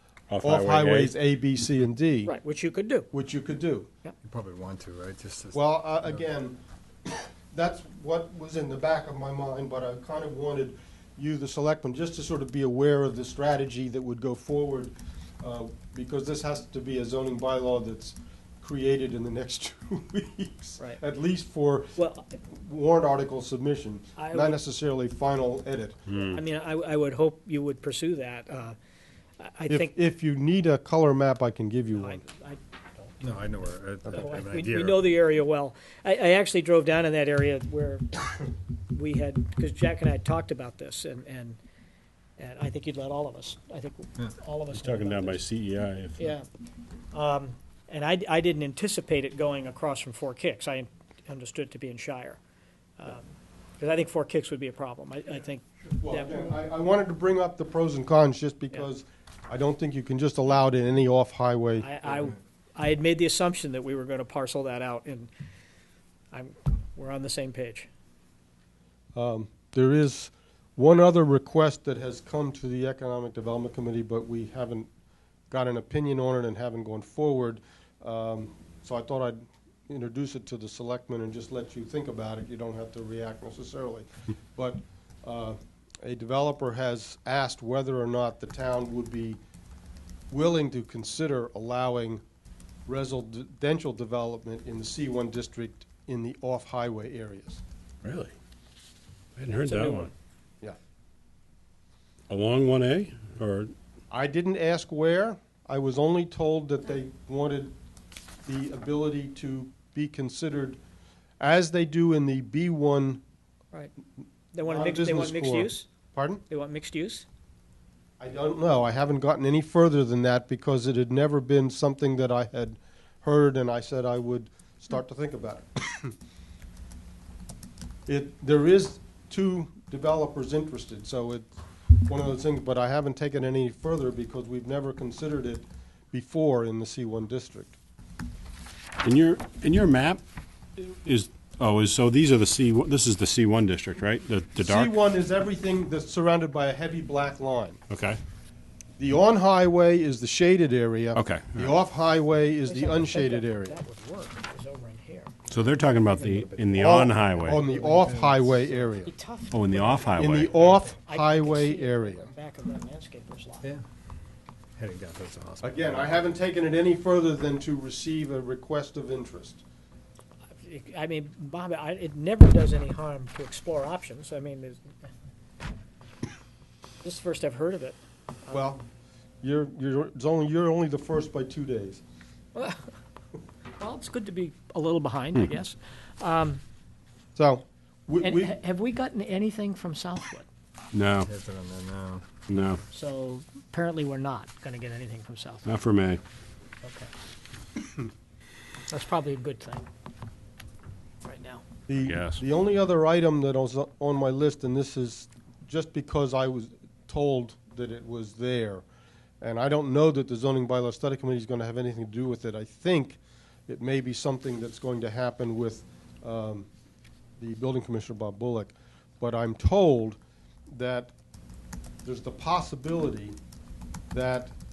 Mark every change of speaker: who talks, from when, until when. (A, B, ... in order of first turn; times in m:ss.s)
0:00.3-0:01.1 A
0:00.4-0:02.3 B
0:02.2-0:03.1 C
0:03.1-0:03.9 B
0:04.2-0:06.2 D
0:05.5-0:26.0 B
0:22.0-0:22.2 C
0:24.2-0:24.6 C
0:26.1-0:26.4 A
0:26.3-0:28.8 C
0:29.4-0:29.9 C
0:29.7-0:32.2 B
0:31.9-0:33.1 C
0:33.2-0:35.1 D
0:34.0-0:41.6 C
0:42.4-0:45.4 C
0:44.7-0:46.3 A
0:46.2-0:46.4 C
0:47.1-0:52.4 C
0:53.0-0:56.6 C
0:56.0-1:01.9 B
1:01.8-1:05.3 C
1:06.3-1:07.9 C
1:09.1-1:14.9 B
1:15.5-1:29.4 B
1:30.3-1:32.2 B
1:32.9-1:37.6 B
1:38.0-1:38.3 A
1:39.4-1:40.1 A
1:39.5-1:40.1 C
1:42.3-1:43.7 A
1:44.1-1:47.7 B
1:48.4-1:50.8 B
1:51.4-1:53.2 B
1:54.5-1:55.9 C
1:54.6-1:56.4 B
1:56.5-1:57.2 C
1:58.2-2:06.1 B
2:08.1-2:11.5 B
2:12.0-2:17.8 B
2:19.0-2:20.2 A
2:20.8-2:24.9 A
2:24.6-2:27.8 B
2:27.9-2:28.2 A
2:29.0-2:33.8 B
2:31.1-2:31.7 A
2:32.6-2:35.3 C
2:35.5-2:37.6 A
2:36.1-2:39.0 D
2:36.7-2:39.1 B
2:39.0-2:43.7 C
2:39.5-2:40.8 A
2:40.2-2:42.3 B
2:44.8-2:46.2 D
2:45.6-2:49.6 B
2:50.6-2:54.9 C
2:57.0-2:58.6 C
2:58.5-2:58.8 B
2:59.4-3:02.0 B
3:02.5-3:02.9 C
3:03.8-3:06.6 C
3:07.4-3:08.5 B
3:08.2-3:10.4 C
3:10.9-3:11.3 A
3:11.2-3:12.4 D
3:12.5-3:12.8 A
3:12.9-3:15.6 C
3:15.6-3:16.2 A
3:16.8-3:17.1 C
3:18.9-3:19.8 C
3:21.2-3:21.6 C
3:21.9-3:28.8 B
3:22.0-3:22.4 A
3:29.4-3:36.7 B
3:37.4-3:41.1 B
3:42.0-3:43.4 B
3:44.1-3:44.5 B